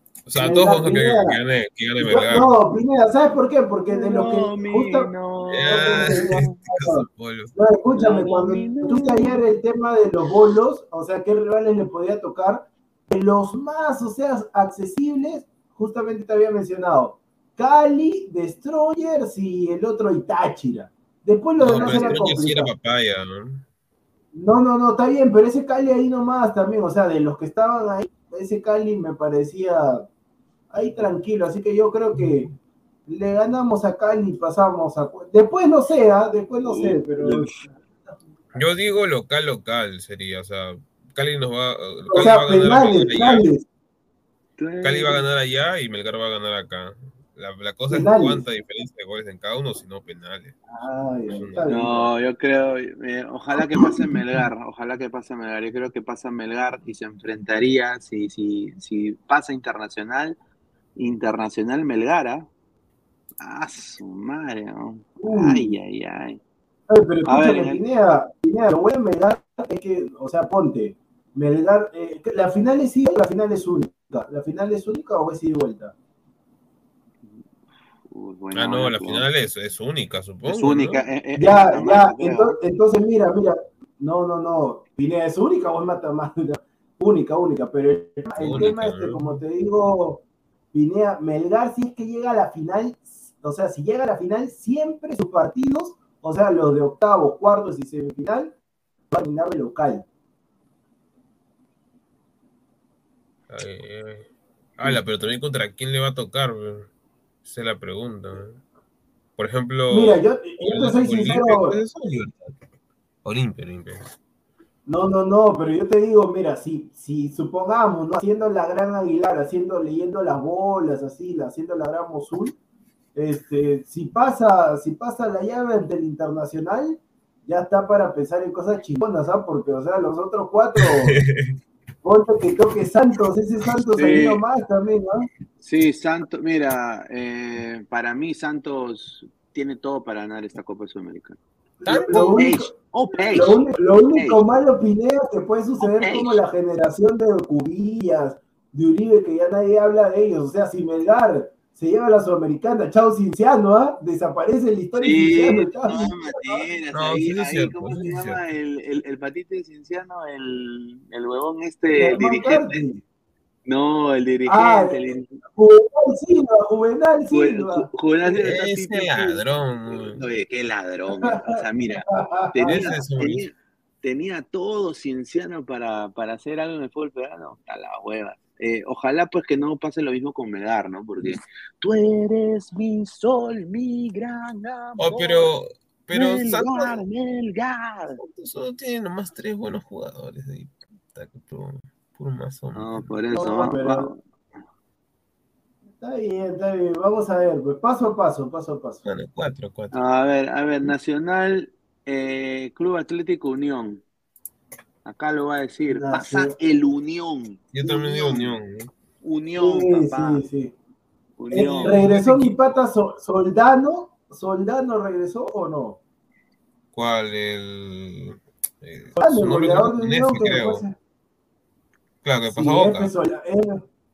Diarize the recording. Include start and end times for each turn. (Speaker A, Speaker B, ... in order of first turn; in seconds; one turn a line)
Speaker A: 0.3-2.6
Speaker B: 0.4-1.4
Speaker B: 2.0-22.7
Speaker C: 3.9-6.4
Speaker A: 5.5-7.5
Speaker C: 7.9-9.4
Speaker A: 21.6-23.6
Speaker C: 21.7-22.2
Speaker B: 24.3-30.1
Speaker B: 30.7-32.5
Speaker B: 33.1-37.7
Speaker C: 36.6-37.6
Speaker A: 38.5-43.5
Speaker B: 42.1-43.6
Speaker C: 44.6-45.2
Speaker A: 44.8-50.6
Speaker B: 47.9-48.4
Speaker B: 50.7-51.9
Speaker A: 51.3-52.1
Speaker C: 51.7-60.4
Speaker B: 53.7-54.2
Speaker C: 61.0-62.5
Speaker C: 63.4-66.4
Speaker B: 65.2-65.7
Speaker B: 66.9-75.9
Speaker C: 67.3-67.8
Speaker C: 78.1-79.3
Speaker A: 78.5-81.0
Speaker C: 80.5-82.6
Speaker B: 81.4-98.5
Speaker A: 88.4-89.2
Speaker B: 99.1-100.0
Speaker A: 103.5-106.9
Speaker A: 107.4-108.6
Speaker A: 109.4-112.6
Speaker B: 109.9-111.8
Speaker A: 113.2-114.1
Speaker B: 114.9-122.6
Speaker B: 123.2-131.2
Speaker A: 130.8-131.6
Speaker B: 132.0-135.3
Speaker C: 134.0-134.4
Speaker C: 135.6-141.4
Speaker B: 141.8-156.6
Speaker A: 141.9-142.4
Speaker C: 142.1-144.4
Speaker C: 145.8-146.4
Speaker C: 155.0-162.8
Speaker A: 156.9-158.4
Speaker B: 161.9-163.0
Speaker C: 163.7-165.4
Speaker B: 164.5-167.9
Speaker C: 167.3-185.5
Speaker A: 168.3-170.2
Speaker B: 171.2-172.9
Speaker A: 172.7-173.5
Speaker A: 185.0-187.0
Speaker C: 186.1-188.2
Speaker A: 188.2-193.2
Speaker C: 192.7-194.2
Speaker B: 193.3-194.1
Speaker B: 196.0-199.1
Speaker A: 199.1-200.0
Speaker C: 199.9-204.0
Speaker C: 205.1-207.7
Speaker B: 205.9-206.6
Speaker A: 207.7-208.9
Speaker B: 207.8-208.5
Speaker C: 209.2-210.4
Speaker B: 209.6-210.7
Speaker C: 211.4-212.0
Speaker B: 211.5-216.0
Speaker A: 211.9-212.5
Speaker A: 216.9-220.9
Speaker B: 219.2-221.0
Speaker A: 222.2-223.1
Speaker B: 222.5-223.8